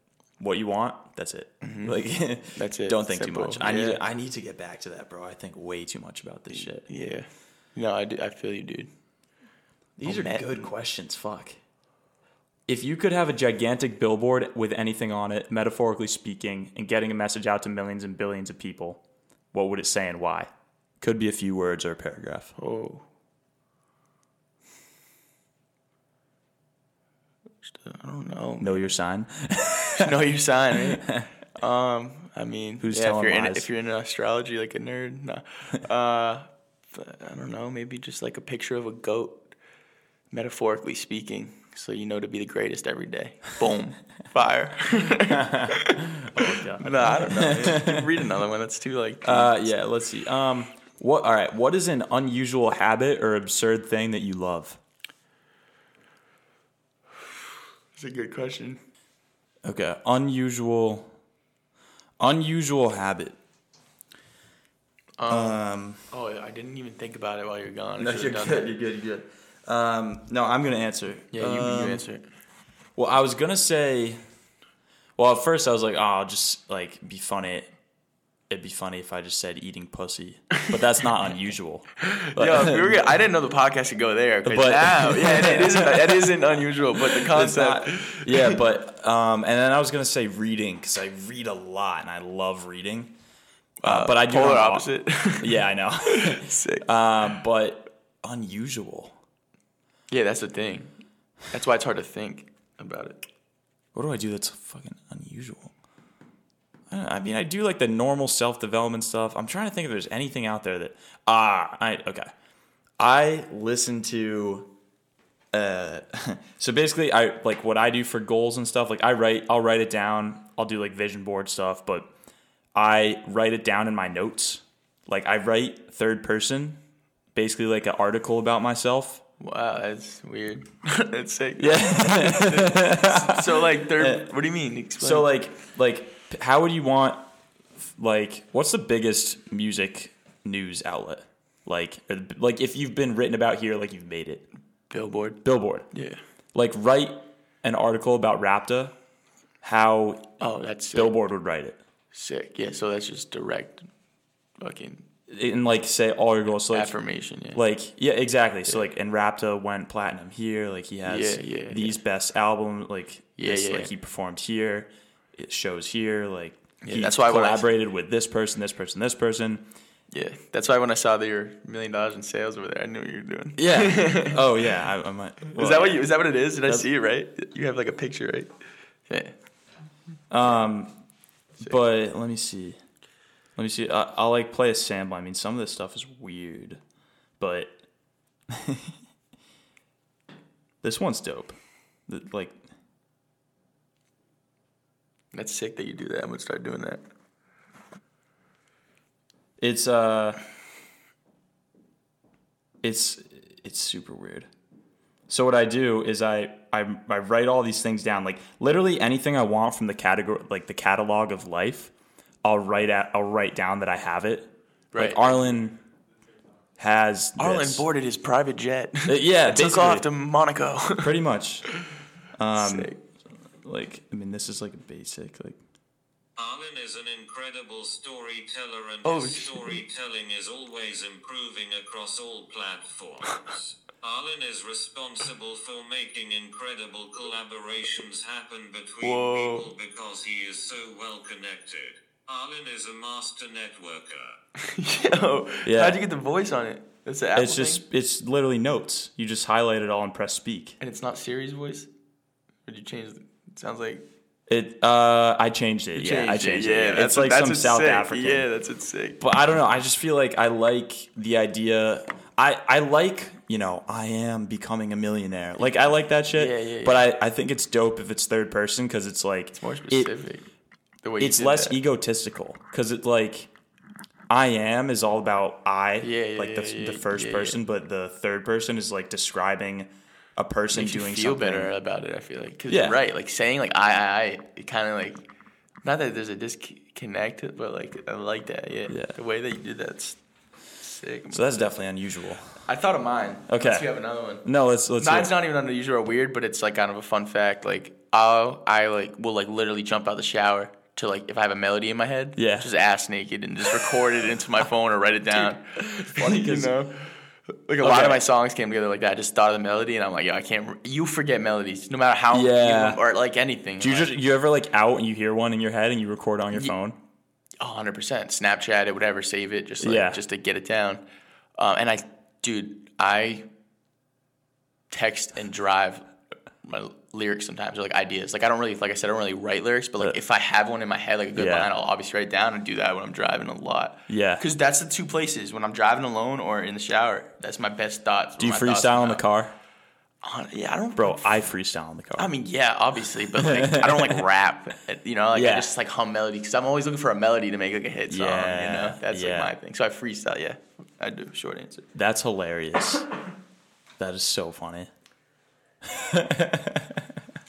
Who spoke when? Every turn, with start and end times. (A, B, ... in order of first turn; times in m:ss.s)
0:00.4-0:06.8 A
0:01.6-0:02.0 B
0:02.5-0:04.0 B
0:06.5-0:08.9 B
0:10.0-0:11.6 A
0:10.0-0:10.7 B
0:12.7-0:19.0 A
0:19.5-0:20.5 A
0:21.0-0:22.5 A
0:22.6-0:23.0 B
0:27.7-0:28.9 B
0:28.6-0:30.1 A
0:29.9-0:39.5 B
0:30.9-0:31.3 A
0:32.8-0:33.7 A
0:40.3-0:49.6 B
0:45.3-0:48.2 A
0:49.2-0:54.8 A
0:58.0-0:58.8 B
0:59.6-1:01.1 A
1:02.2-1:03.4 A
1:05.2-1:05.6 B
1:05.3-1:06.0 A
1:06.1-1:08.7 B
1:08.0-1:12.0 A
1:11.3-1:12.2 B
1:13.0-1:14.2 A
1:15.2-1:17.7 A
1:18.5-1:23.1 A
1:22.0-1:28.6 B
1:24.4-1:26.4 A
1:27.0-1:33.2 A
1:33.8-1:36.9 B
1:33.8-1:39.2 A
1:40.1-1:40.9 B
1:41.5-1:43.2 B
1:44.0-1:45.7 A
1:46.9-1:52.3 A
1:53.0-1:54.7 A
1:55.5-2:02.1 A
2:02.8-2:06.8 A
2:07.4-2:09.2 A
2:09.4-2:15.3 B
2:11.6-2:14.3 A
2:15.0-2:17.3 A
2:17.8-2:24.5 A
2:24.9-2:26.2 B
2:25.4-2:25.9 A
2:26.5-2:29.0 A
2:29.6-2:30.3 A
2:30.4-2:31.2 B
2:30.9-2:31.8 A
2:32.1-2:33.9 B
2:34.6-2:35.1 B
2:35.3-2:36.9 A
2:36.7-2:37.6 B
2:37.5-2:49.7 A
2:41.1-2:42.0 B
2:43.4-2:43.9 B
2:46.8-2:47.7 B
2:50.1-2:54.4 B
2:53.6-2:56.1 A
2:55.5-2:58.5 B
2:59.1-2:59.3 B
3:00.3-3:00.9 A
3:01.6-3:02.8 A
3:03.6-3:06.8 A
3:07.4-3:07.8 A
3:08.5-3:09.0 A
3:10.8-3:11.6 A
3:12.1-3:12.6 A
3:15.3-3:17.0 B
3:19.6-3:20.4 A
3:22.8-3:24.5 A
3:25.3-3:31.9 A
3:32.4-3:35.8 A
3:34.9-3:35.4 B
3:36.8-3:37.8 A
3:37.4-3:41.2 B
3:39.1-3:40.1 A
3:41.0-3:41.7 A
3:42.4-3:42.9 A
3:42.5-3:43.0 B
3:43.6-3:45.6 A
3:46.4-4:04.4 C
3:49.0-3:49.8 B
3:59.0-3:59.7 B
4:04.6-4:07.8 B
4:05.6-4:06.0 A
4:07.4-4:10.8 A
4:10.8-4:11.9 B
4:12.7-4:14.0 B
4:14.5-4:18.5 A
4:16.0-4:19.2 B
4:19.2-4:30.1 A
4:26.3-4:27.1 B
4:29.6-4:30.5 B
4:31.0-4:31.8 B
4:31.2-4:33.5 A
4:34.3-4:41.7 A
4:36.0-4:37.6 B
4:40.7-4:45.2 B
4:42.7-4:43.0 A
4:45.8-4:50.2 B
4:48.9-4:49.2 A
4:50.8-4:51.8 B
4:51.3-4:52.6 A
4:52.6-4:54.5 B
4:53.5-4:53.9 A
4:54.4-4:55.3 A
4:55.0-5:07.1 B
5:02.4-5:02.7 A
5:05.4-5:06.7 A
5:07.7-5:14.2 B
5:07.8-5:08.2 A
5:12.3-5:13.0 A
5:13.8-5:17.0 A
5:17.6-5:21.0 B
5:19.8-5:20.2 A
5:21.6-5:23.5 B
5:24.9-5:26.1 B
5:26.6-5:39.2 B
5:31.4-5:31.7 A
5:34.1-5:34.4 A
5:38.4-5:39.6 A
5:40.2-5:41.4 B
5:41.0-5:42.3 A
5:42.2-5:51.9 B
5:43.4-5:44.3 A
5:45.3-5:45.7 A
5:48.1-5:49.5 A
5:52.0-5:53.1 A
5:54.0-5:54.9 A
5:55.9-5:57.1 A